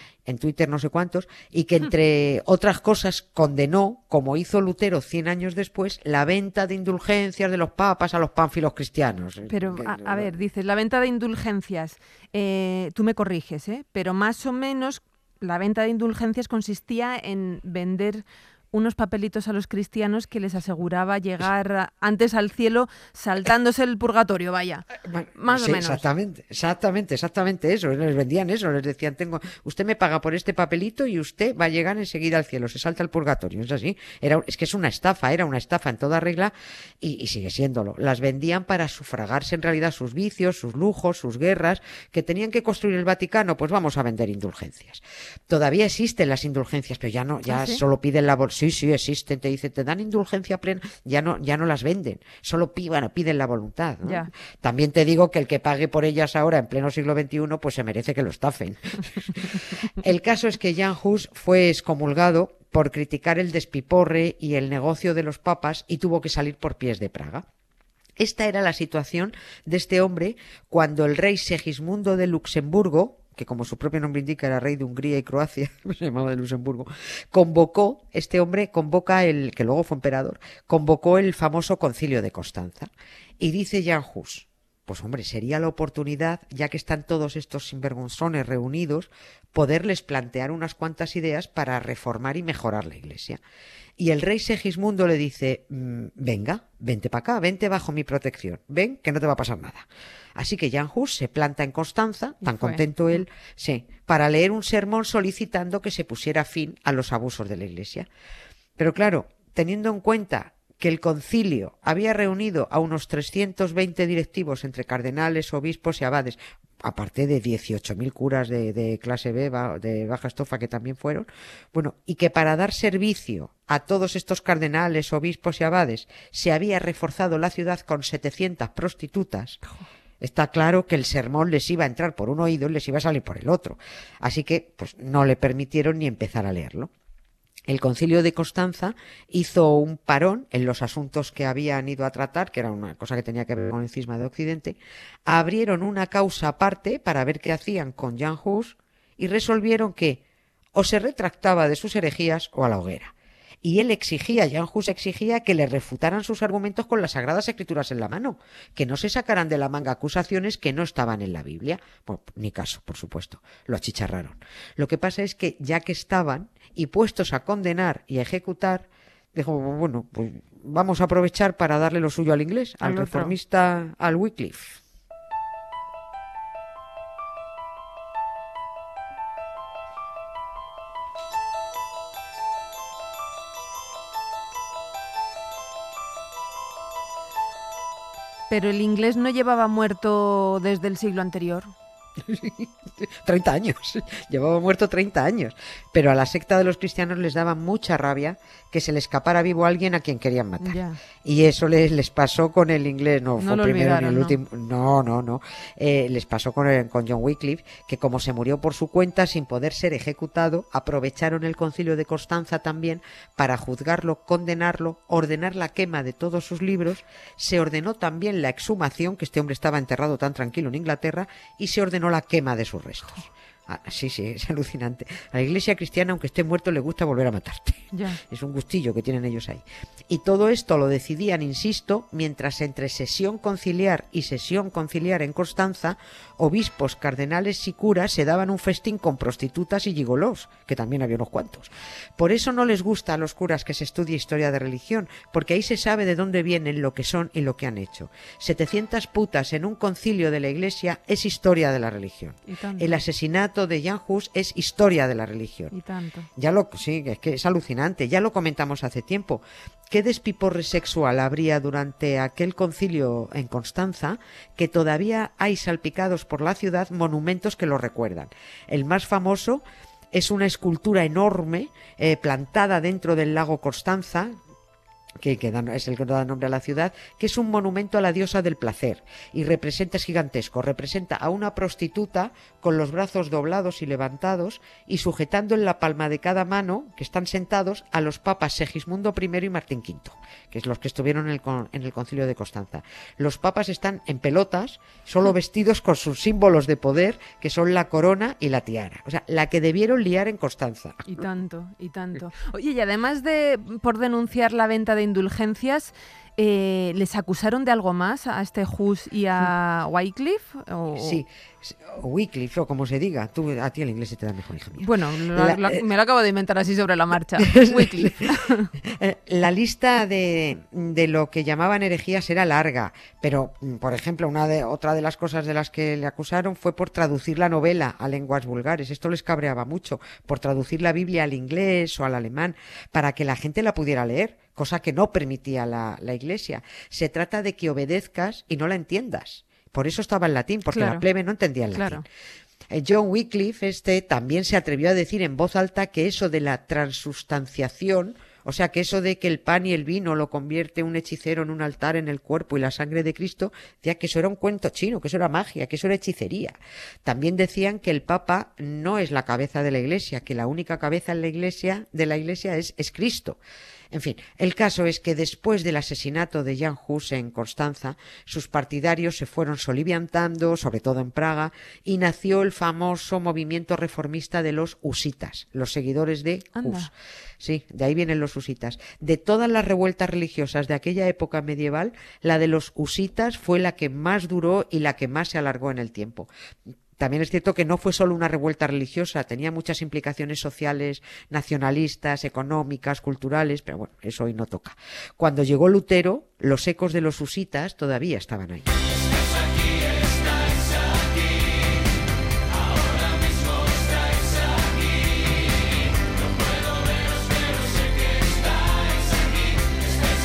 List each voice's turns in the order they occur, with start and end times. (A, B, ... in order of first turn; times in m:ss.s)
0:00.3-0:10.4 A
0:09.5-0:26.0 B
0:25.0-1:07.4 A
0:47.5-0:47.8 B
0:54.0-0:54.3 B
1:08.2-1:33.4 A
1:34.0-1:48.1 A
1:42.4-1:42.8 B
1:48.8-2:09.6 A
2:10.2-2:16.9 A
2:17.7-2:30.2 A
2:30.8-2:54.8 A
2:52.8-2:53.4 B
3:08.5-3:11.7 B
3:12.2-4:15.7 A
3:20.6-3:21.0 B
3:23.4-3:24.4 B
3:47.9-3:48.2 B
4:12.5-4:13.0 B
4:15.7-4:16.3 B
4:16.4-4:34.3 A
4:35.2-5:01.2 A
5:01.1-5:11.2 B
5:11.0-5:15.8 A
5:14.8-5:18.7 B
5:17.4-5:42.0 A
5:40.7-5:41.1 B
5:41.7-5:42.0 B
5:42.7-6:03.4 A
6:03.9-6:26.3 A
6:16.6-6:16.9 B
6:27.0-6:38.8 A